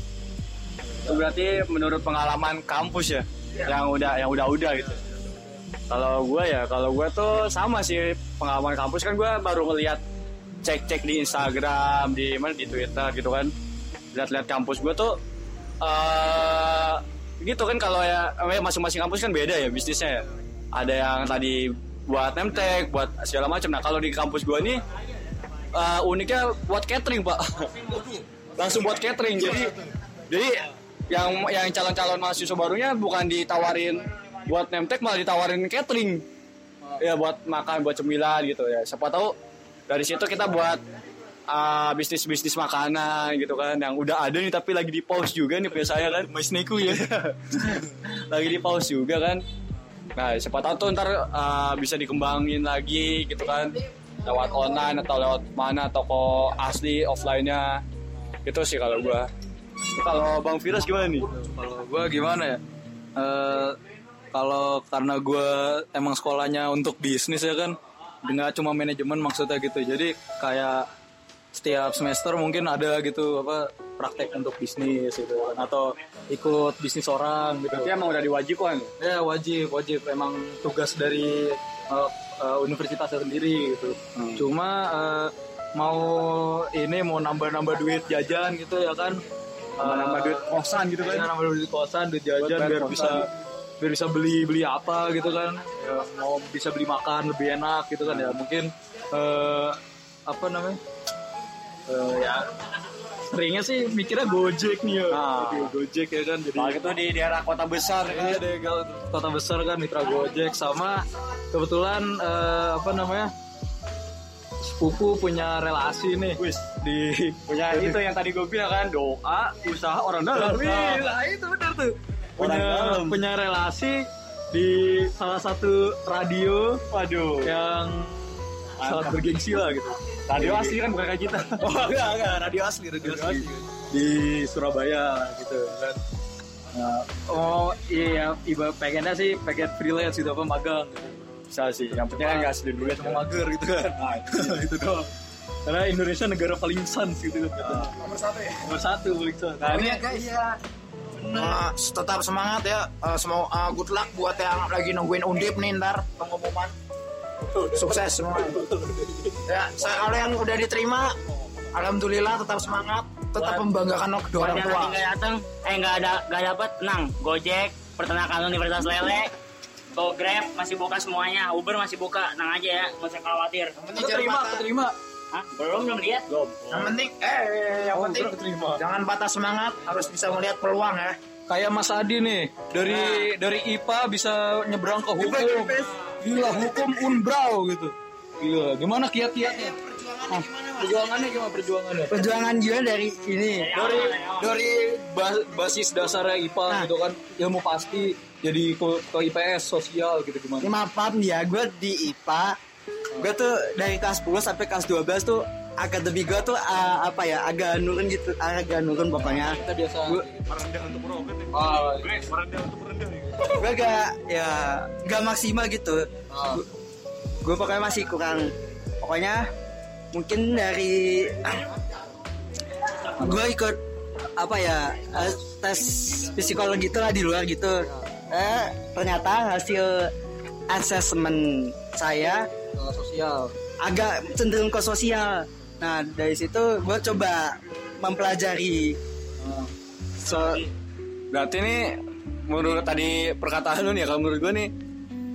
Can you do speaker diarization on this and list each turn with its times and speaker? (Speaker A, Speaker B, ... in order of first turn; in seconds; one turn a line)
Speaker A: 0.8-1.2
Speaker B: 1.1-5.0
Speaker A: 4.7-5.6
Speaker B: 5.9-10.0
Speaker B: 10.6-13.5
Speaker B: 14.1-15.2
Speaker B: 15.8-24.8
Speaker C: 24.9-25.5
Speaker B: 25.7-27.7
Speaker C: 27.6-28.3
Speaker D: 28.1-30.4
Speaker B: 28.6-29.8
Speaker A: 29.4-29.7
Speaker B: 30.3-36.2
Speaker D: 34.1-34.5
Speaker A: 36.8-37.1
Speaker B: 37.0-39.4
Speaker B: 39.9-40.8
Speaker B: 41.5-49.4
Speaker A: 45.7-47.0
Speaker B: 50.2-57.8
Speaker D: 53.6-55.0
Speaker B: 58.5-59.3
Speaker B: 59.9-61.3
Speaker A: 60.8-62.6
Speaker A: 63.2-63.8
Speaker A: 64.3-70.9
Speaker A: 71.5-77.9
Speaker B: 77.7-78.9
Speaker A: 79.0-89.2
Speaker B: 84.2-84.4
Speaker A: 89.8-90.5
Speaker B: 89.8-91.3
Speaker A: 91.0-93.3
Speaker B: 92.4-93.3
Speaker A: 93.8-100.8
Speaker B: 98.0-98.4
Speaker A: 101.9-102.5
Speaker A: 103.2-107.0
Speaker B: 105.1-105.7
Speaker B: 106.5-108.4
Speaker A: 108.0-113.3
Speaker A: 114.6-118.0
Speaker B: 116.4-116.7
Speaker B: 117.5-121.1
Speaker A: 120.3-126.8
Speaker B: 122.4-123.2
Speaker B: 126.9-127.5
Speaker A: 127.4-128.2
Speaker A: 128.8-130.8
Speaker B: 128.8-129.2
Speaker B: 130.3-131.6
Speaker A: 131.6-136.0
Speaker B: 133.0-133.5
Speaker A: 136.7-141.3
Speaker B: 141.5-143.3
Speaker A: 141.9-145.1
Speaker B: 144.0-144.6
Speaker A: 145.7-147.9
Speaker B: 147.6-147.9
Speaker D: 147.9-148.7
Speaker A: 148.6-149.9
Speaker B: 149.6-150.0
Speaker D: 149.6-150.4
Speaker E: 150.1-150.4
Speaker D: 151.3-156.8
Speaker A: 157.4-159.4
Speaker D: 157.7-158.7
Speaker D: 159.5-161.2
Speaker D: 161.7-165.0
Speaker C: 163.4-163.7
Speaker C: 164.4-169.3
Speaker C: 169.9-173.7
Speaker D: 173.8-174.7
Speaker A: 174.0-174.9
Speaker C: 175.3-176.3
Speaker B: 176.3-177.0
Speaker D: 176.7-181.2
Speaker A: 177.9-178.8
Speaker A: 181.5-189.8
Speaker E: 185.2-185.9
Speaker D: 189.4-191.7
Speaker A: 190.3-192.2
Speaker E: 192.1-194.0
Speaker C: 193.5-194.6
Speaker A: 193.7-200.7
Speaker E: 200.6-202.6
Speaker E: 203.2-210.3
Speaker A: 209.2-210.5
Speaker B: 210.5-213.5
Speaker A: 211.5-212.3
Speaker E: 213.4-216.6
Speaker A: 216.3-216.6
Speaker E: 217.4-219.4
Speaker E: 220.1-221.7
Speaker E: 223.1-223.8
Speaker E: 224.3-230.1
Speaker A: 225.1-225.4
Speaker A: 227.8-228.3
Speaker E: 230.7-232.5
Speaker A: 232.7-233.5
Speaker E: 233.8-239.0
Speaker A: 239.4-239.7
Speaker E: 240.2-240.6
Speaker B: 240.2-240.7
Speaker B: 241.3-244.7